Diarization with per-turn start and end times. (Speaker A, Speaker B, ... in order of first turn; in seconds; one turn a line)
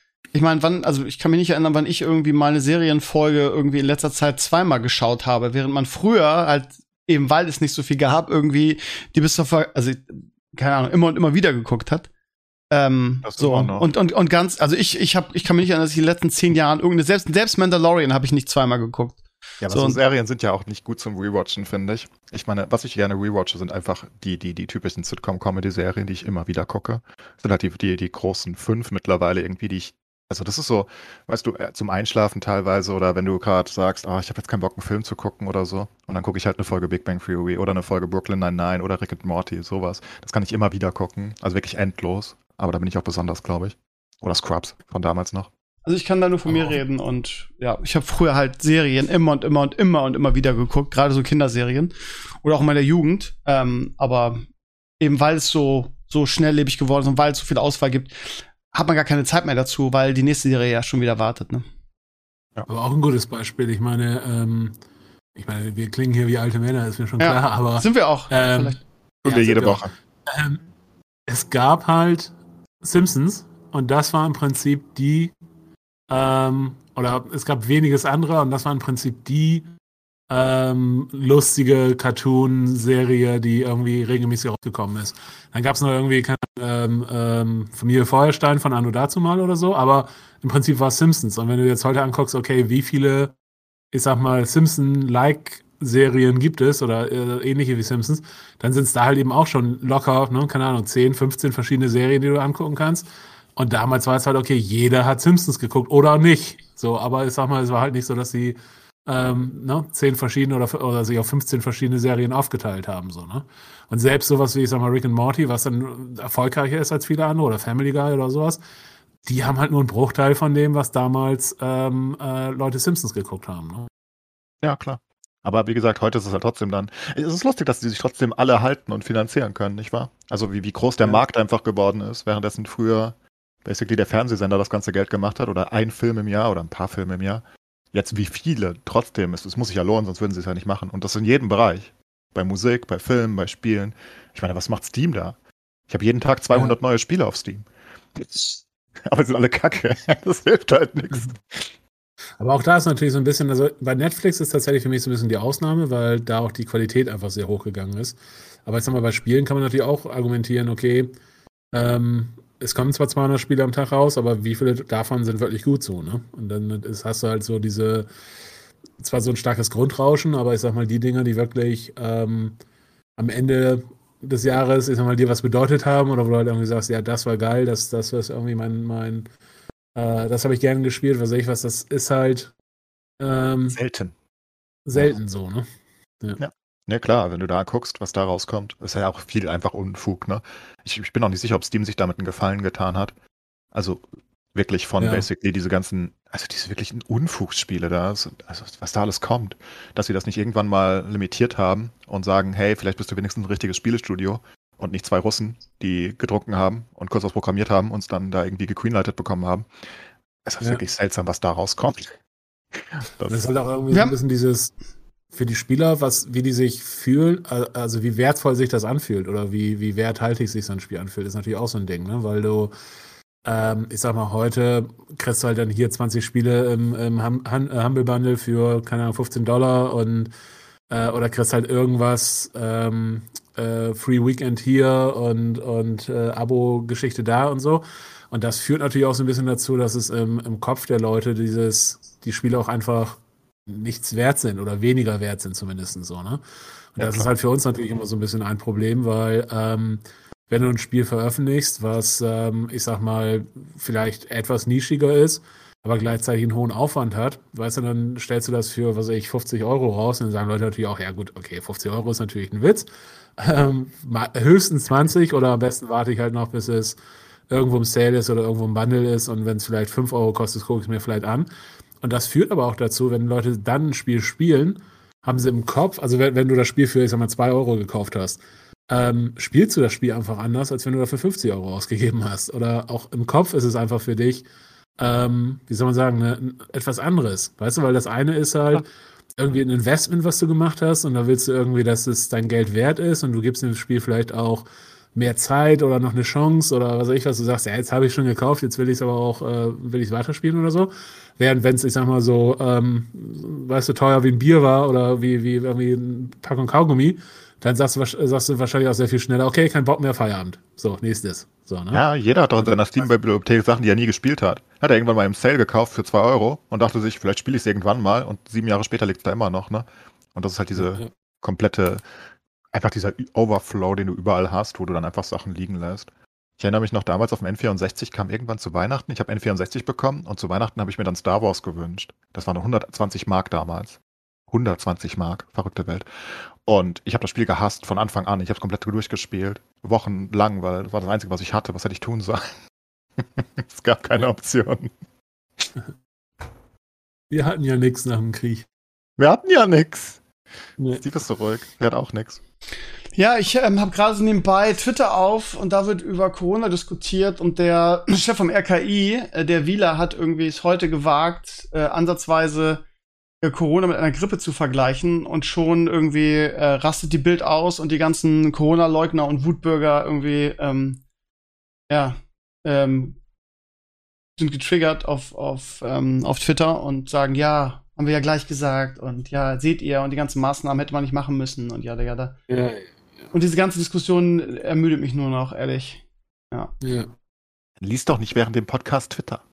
Speaker A: 0.3-12.1
Speaker A: 12.7-19.2
Speaker B: 13.2-13.9
Speaker B: 19.6-45.5
Speaker A: 19.7-20.0
Speaker A: 45.9-54.4
Speaker A: 55.0-61.6
Speaker C: 62.7-64.7
Speaker C: 65.3-70.6
Speaker A: 67.2-68.8
Speaker B: 69.2-69.9
Speaker C: 71.3-75.3
Speaker C: 76.1-79.7
Speaker C: 80.3-93.3
Speaker C: 93.9-103.0
Speaker C: 103.5-118.6
Speaker C: 119.2-123.9
Speaker B: 124.6-145.4
Speaker B: 145.9-151.7
Speaker C: 152.4-161.1
Speaker C: 161.7-168.1
Speaker C: 169.0-172.6
Speaker C: 173.2-179.3
Speaker C: 179.9-182.5
Speaker C: 183.2-183.8
Speaker B: 183.7-184.1
Speaker C: 184.8-185.7
Speaker B: 186.4-193.1
Speaker B: 193.7-194.0
Speaker B: 194.5-209.7
Speaker C: 195.0-195.2
Speaker B: 210.4-212.2
Speaker B: 212.8-213.5
Speaker C: 213.3-214.7
Speaker C: 215.3-222.7
Speaker C: 223.4-230.3
Speaker C: 230.9-246.4
Speaker C: 246.9-267.0
Speaker B: 247.0-247.3
Speaker C: 267.5-271.5
Speaker C: 272.0-284.4
Speaker C: 285.0-288.8
Speaker C: 289.4-312.0
Speaker B: 311.9-322.0
Speaker C: 320.8-321.1
Speaker B: 322.7-334.0
Speaker B: 334.5-342.5
Speaker B: 343.2-344.9
Speaker C: 347.3-348.6
Speaker B: 349.2-350.2
Speaker B: 350.9-352.4
Speaker A: 353.1-362.8
Speaker A: 363.4-371.0
Speaker A: 371.9-373.2
Speaker A: 374.4-382.4
Speaker C: 382.5-382.9
Speaker A: 383.3-386.7
Speaker C: 386.8-387.1
Speaker B: 387.8-389.4